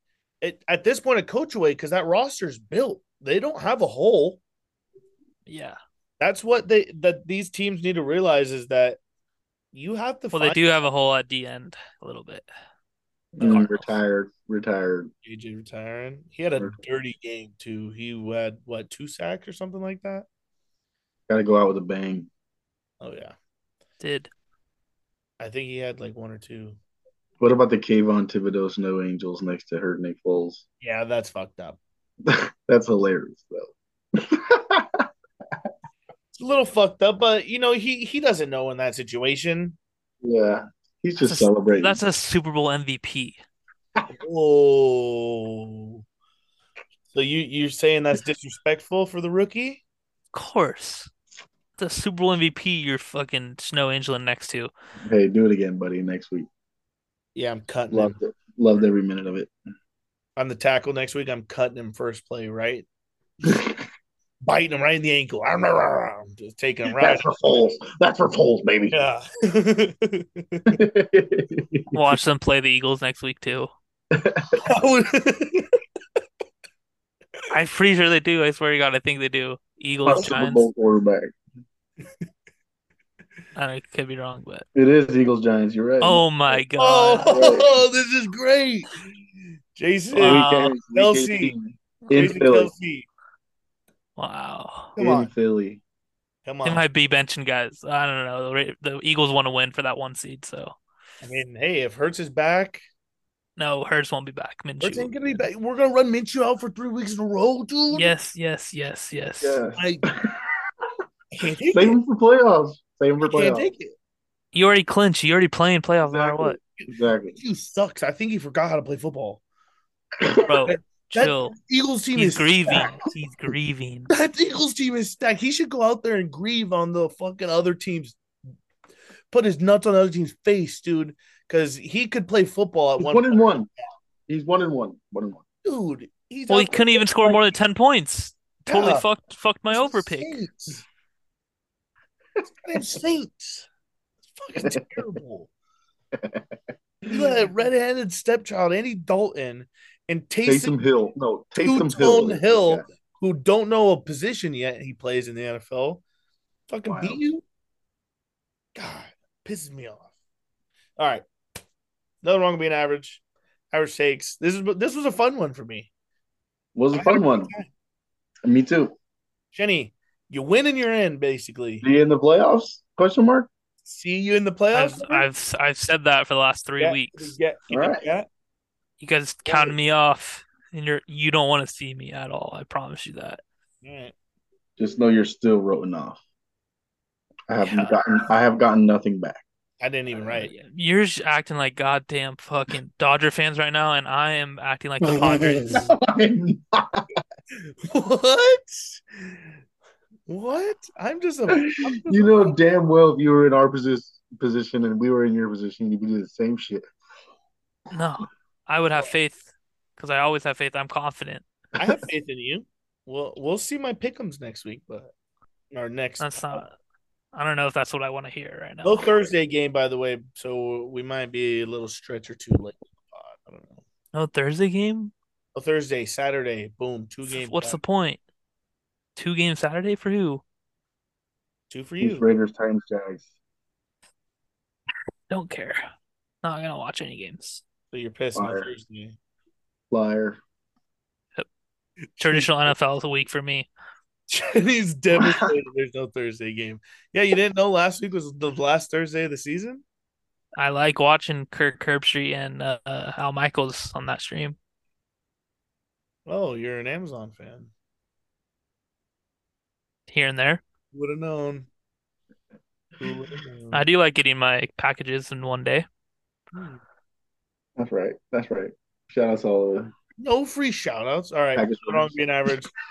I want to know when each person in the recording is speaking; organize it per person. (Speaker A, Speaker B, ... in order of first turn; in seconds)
Speaker A: 0.4-4.4, 6.2-9.0, 9.7-10.7, 15.2-20.2, 23.0-23.3, 25.4-26.8, 30.8-31.8, 36.3-39.8, 44.2-46.0, 47.1-49.8, 57.3-58.1, 60.4-62.9, 64.4-67.3, 68.9-70.8, 74.6-75.8, 86.8-89.0, 89.7-91.5, 92.1-93.1, 95.0-95.3, 96.4-96.8, 101.2-102.8, 104.8-108.1, 109.8-110.1, 111.3-112.0, 113.2-113.9, 116.8-119.4, 120.7-123.0, 124.1-128.2, 129.3-133.4, 135.6-137.4, 138.6-139.0, 139.7-140.8, 142.4-143.7, 144.3-145.5, 147.1-150.7, 151.6-156.0, 156.7-157.4, 158.7-160.1, 161.0-161.2, 162.2-165.9, 166.9-167.7, 169.5-171.8, 173.8-175.3, 176.8-178.3, 179.5-179.7, 183.8-184.1, 189.8-190.5, 195.1-195.9, 197.8-199.3, 200.3-202.6, 211.8-215.1, 215.7-216.6, 218.8-223.8, 225.5-227.8, 231.7-232.3, 237.9-239.2, 242.2-242.5, 244.3-249.8, 256.2-257.7, 260.9-261.7, 263.0-263.8, 266.5-266.8, 270.2-272.7
Speaker B: 5.5-5.8, 10.3-12.4, 13.4-14.0, 24.0-24.3, 41.2-43.4, 50.3-51.1, 51.8-54.7, 71.9-73.7, 77.5-80.7, 83.5-84.7, 86.0-87.4, 90.2-90.8, 92.0-92.4, 94.2-94.9, 96.6-100.7, 103.6-105.4, 107.9-109.6, 114.5-116.6, 120.4-121.6, 122.1-124.1, 136.5-140.4, 174.7-177.3, 179.0-183.4, 187.6-187.9, 190.2-195.9, 207.9-211.4, 216.2-216.7, 217.3-219.3, 224.1-225.1, 227.3-228.2, 229.2-230.4, 235.3-235.8, 236.4-237.6, 242.2-243.7, 250.6-254.6, 260.1-260.6, 263.7-265.9
Speaker C: 13.3-15.1, 21.3-22.3, 27.4-30.6, 32.2-35.0, 40.2-42.0, 55.0-56.5, 57.9-59.5, 63.4-63.8, 66.9-69.0, 70.7-72.2, 74.1-74.6, 80.0-81.3, 84.7-86.6, 87.3-87.7, 90.1-92.7, 95.0-95.8, 109.4-110.4, 111.7-113.7, 116.0-117.4, 133.0-133.7, 134.3-135.4, 146.1-146.5, 147.1-147.3, 150.4-152.8, 156.8-157.2, 166.7-167.5, 168.4-168.9, 171.8-173.5, 177.7-178.0, 184.8-186.2, 187.5-189.4, 195.1-197.1, 201.6-206.8, 232.0-233.3, 238.3-238.7, 239.9-240.4, 245.2-245.5, 267.8-269.9, 271.5-272.2